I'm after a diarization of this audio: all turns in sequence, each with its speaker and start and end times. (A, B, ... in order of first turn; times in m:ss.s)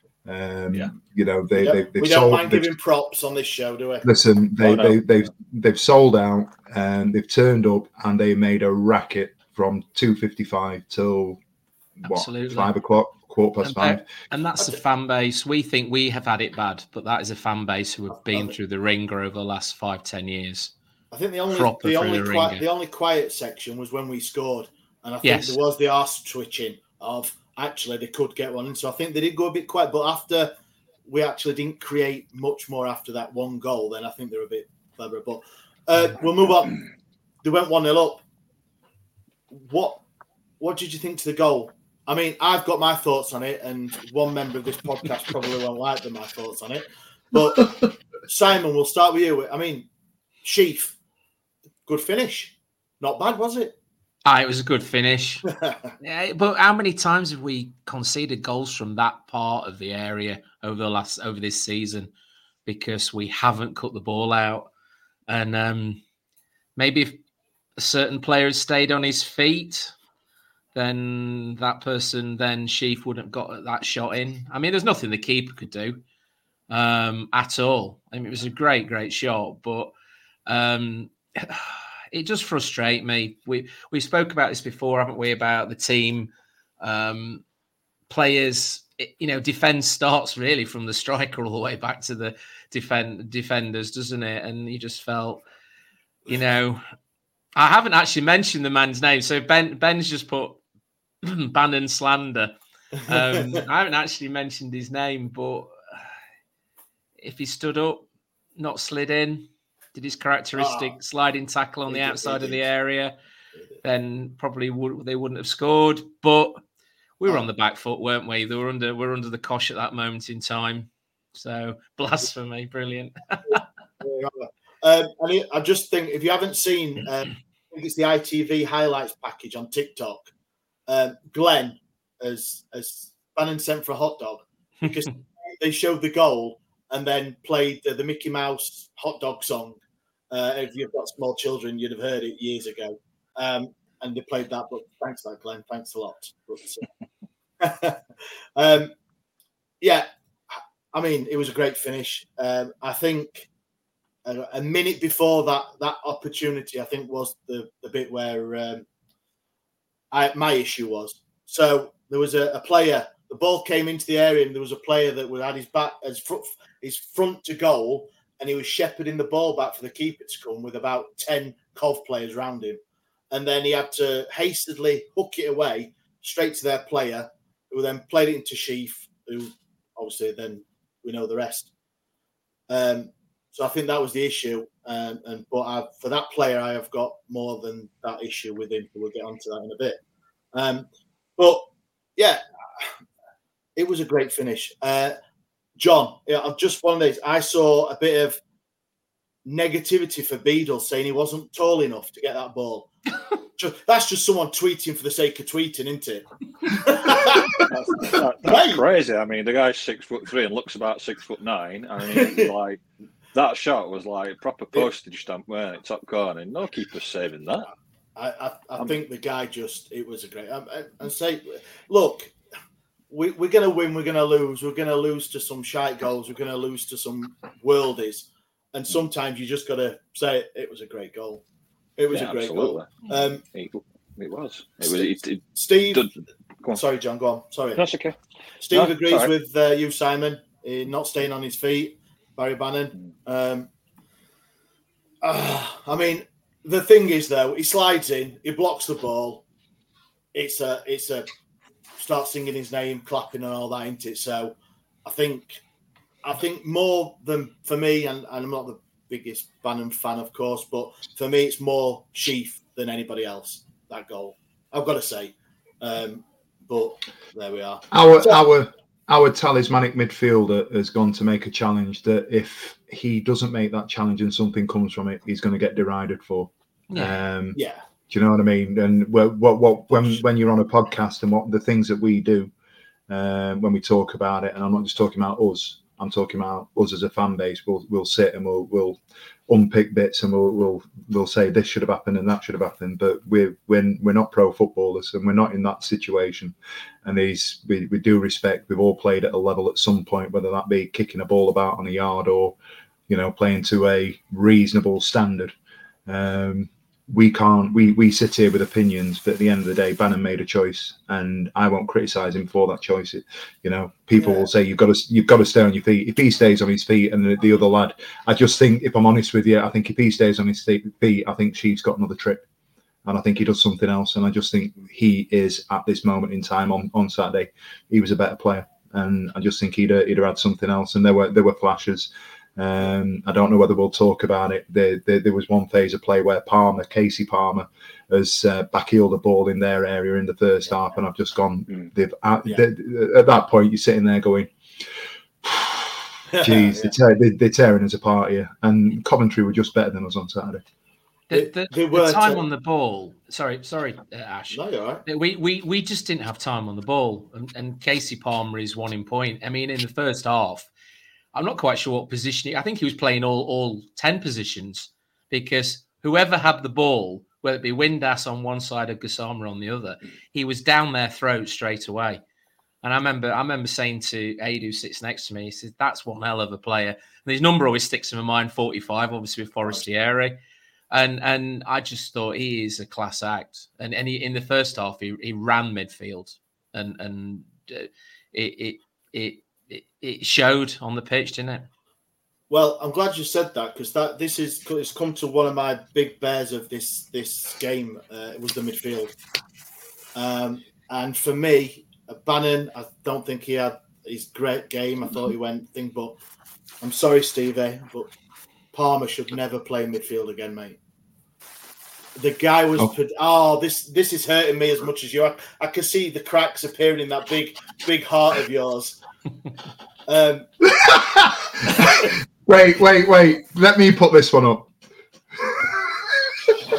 0:00.3-0:02.7 A
0:01.6-0:04.1 B
0:04.0-0:11.4 A
0:12.0-0:14.1 A
0:12.0-0:12.7 C
0:13.6-0:20.7 C
0:18.3-0:18.6 B
0:21.1-0:30.5 B
0:21.5-0:22.6 C
0:25.2-0:25.6 C
0:31.1-0:36.8 B
0:37.4-0:38.2 B
0:39.5-0:40.0 B
0:40.6-0:49.9 B
0:50.4-0:51.0 B
0:51.9-0:53.8 B
0:54.3-0:55.4 C
0:56.0-1:02.1 C
1:02.7-1:04.7 C
1:05.3-1:06.0 C
1:06.8-1:07.2 C
1:07.8-1:09.9 C
1:10.8-1:16.0 C
1:16.7-1:19.9 C
1:20.5-1:26.3 C
1:26.8-1:27.4 C
1:28.1-1:35.4 C
1:36.3-1:36.8 C
1:37.6-1:40.6 C
1:41.2-1:42.5 C
1:43.1-1:45.7 C
1:43.1-1:43.6 B
1:47.2-1:48.0 C
1:48.6-1:53.1 C
1:50.6-1:51.0 B
1:51.9-1:52.6 B
1:53.8-1:56.6 C
1:57.2-2:03.6 C
2:03.5-2:10.3 B
2:10.9-2:19.8 B
2:20.3-2:26.9 B
2:27.6-2:28.0 B
2:28.6-2:28.9 B
2:29.8-2:33.5 B
2:34.2-2:38.8 B
2:40.1-2:52.8 B
2:53.3-3:01.7 B
3:02.7-3:10.0 B
3:10.5-3:12.8 B
3:13.8-3:15.2 B
3:15.8-3:18.4 B
3:19.4-3:22.9 B
3:23.6-3:28.8 B
3:27.5-3:32.8 D
3:32.1-3:32.5 B
3:33.3-3:37.7 D
3:38.2-3:42.3 B
3:43.1-3:51.4 B
3:52.0-3:53.4 B
3:52.1-3:56.1 D
3:54.8-3:56.1 B
3:56.7-3:57.8 B
3:57.8-3:58.2 D
3:58.6-4:03.7 B
3:58.7-3:59.3 D
4:05.2-4:09.4 B
4:10.3-4:11.3 B
4:12.0-4:15.6 B
4:16.2-4:28.4 B
4:27.9-4:42.5 A
4:36.9-4:37.2 C
4:37.5-4:37.8 B
4:39.9-4:40.2 B
4:43.1-5:02.6 A
5:03.1-5:05.5 A
5:06.1-5:22.4 A
5:14.2-5:14.5 B
5:23.1-5:44.5 A
5:45.4-5:50.6 A
5:46.3-5:47.0 B
5:51.3-6:00.7 C
5:51.3-5:52.4 B
5:54.5-5:55.0 B
6:01.3-6:12.2 C
6:12.8-6:20.4 C
6:20.9-6:31.7 C
6:32.5-6:39.2 B
6:40.2-6:46.2 B
6:46.8-6:48.1 B
6:48.7-6:50.8 B
6:52.2-6:59.0 B
7:00.1-7:00.5 B
7:00.6-7:04.7 A
7:05.4-7:06.0 A